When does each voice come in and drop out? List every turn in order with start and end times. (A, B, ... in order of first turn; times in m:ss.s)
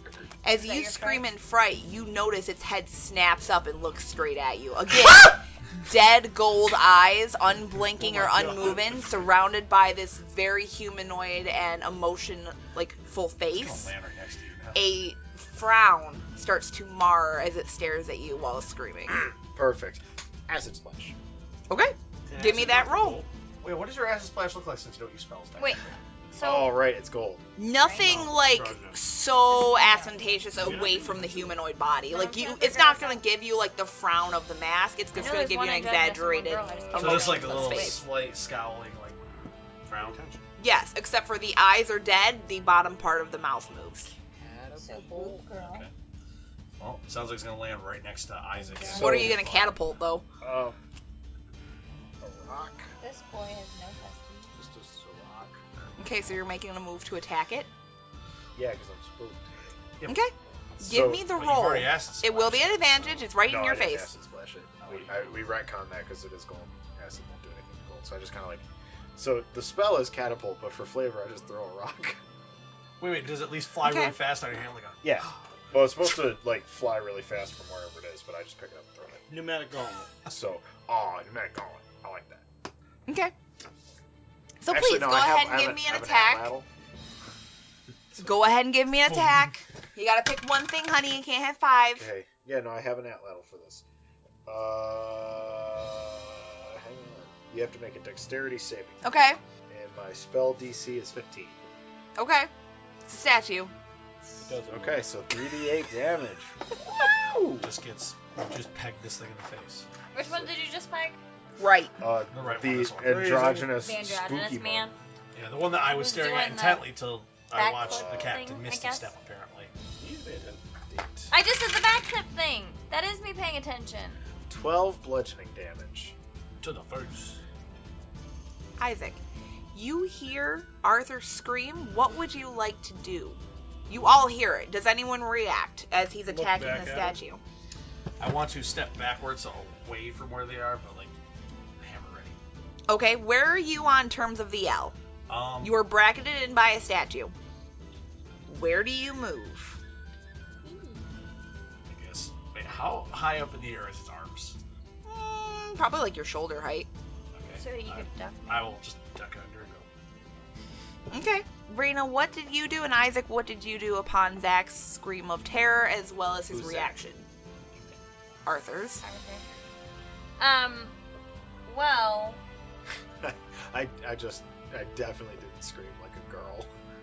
0:00.4-0:13.9 A
0:00.5-0:01.3 B
0:08.0-0:09.3 C
0:13.6-0:14.9 D
0:14.8-0:19.2 A
0:19.4-0:21.2 E
0:21.7-0:23.2 A
0:22.3-0:23.3 C
0:23.6-0:26.0 D
0:25.6-0:26.7 B
0:26.4-0:27.4 E
0:27.6-0:38.0 A
0:27.8-0:28.1 B
0:28.0-0:29.0 C
0:29.5-0:30.4 B
0:30.6-0:31.2 C
0:30.8-0:31.3 E
0:32.1-0:33.2 B
0:35.2-0:38.0 B
0:36.6-0:37.4 E
0:37.0-0:39.2 D
0:39.9-0:40.4 D
0:40.0-0:40.2 C
0:40.6-0:44.1 A
0:44.3-0:45.5 E
0:44.8-0:45.9 B
0:45.5-0:45.9 D
0:46.8-0:49.7 D
0:48.6-0:49.2 B
0:48.9-0:49.4 E
0:48.9-0:50.2 A
0:50.4-0:50.8 E
0:52.2-0:52.9 E
0:53.0-0:54.6 B
0:54.5-0:55.8 E
0:56.0-0:57.7 A
0:58.6-0:59.8 E
1:00.1-1:04.1 A
1:00.8-1:01.3 E
1:01.3-1:03.3 D
1:03.4-1:08.6 E
1:04.8-1:05.5 D
1:09.2-1:12.2 E
1:13.0-1:15.4 D
1:13.8-1:14.2 A
1:15.0-1:19.3 E
1:19.3-1:20.1 C
1:20.3-1:22.5 E
1:23.1-1:23.3 A
1:24.6-1:26.5 A
1:24.7-1:26.7 E
1:28.2-1:32.1 A
1:29.1-1:29.5 D
1:31.8-1:33.8 E
1:34.5-1:39.0 E
1:39.0-1:39.4 A
1:39.7-1:41.6 E
1:42.2-1:42.5 A
1:43.1-1:43.7 A
1:44.3-1:45.0 C
1:44.7-1:46.5 E
1:47.2-1:47.7 E
1:47.6-1:49.9 D
1:50.1-1:51.2 B
1:50.2-1:50.5 E
1:51.6-1:52.0 A
1:52.0-1:54.9 E
1:52.3-1:53.5 D
1:53.0-1:53.7 C
1:53.8-1:55.0 B
1:55.3-1:59.7 D
1:55.8-1:57.0 B
1:57.5-1:59.1 B
1:57.8-1:58.4 E
2:00.0-2:00.6 C
2:00.9-2:01.3 E
2:01.3-2:04.2 B
2:04.5-2:06.2 E
2:06.6-2:07.4 D
2:08.8-2:09.2 A
2:09.7-2:17.4 A
2:16.3-2:17.2 C
2:18.2-2:21.1 D
2:21.8-2:22.4 D
2:22.9-2:25.0 A
2:25.3-2:25.8 D
2:25.6-2:27.3 A
2:28.5-2:29.8 A
2:30.6-2:31.0 B
2:31.9-2:34.6 D
2:35.0-2:36.9 A
2:37.3-2:39.9 D
2:37.6-2:38.8 B
2:41.1-2:47.3 A
2:46.5-2:46.9 E
2:48.5-2:49.0 A
2:49.0-2:49.5 B
2:50.4-2:51.0 B
2:51.6-2:52.4 B
2:53.2-2:56.7 E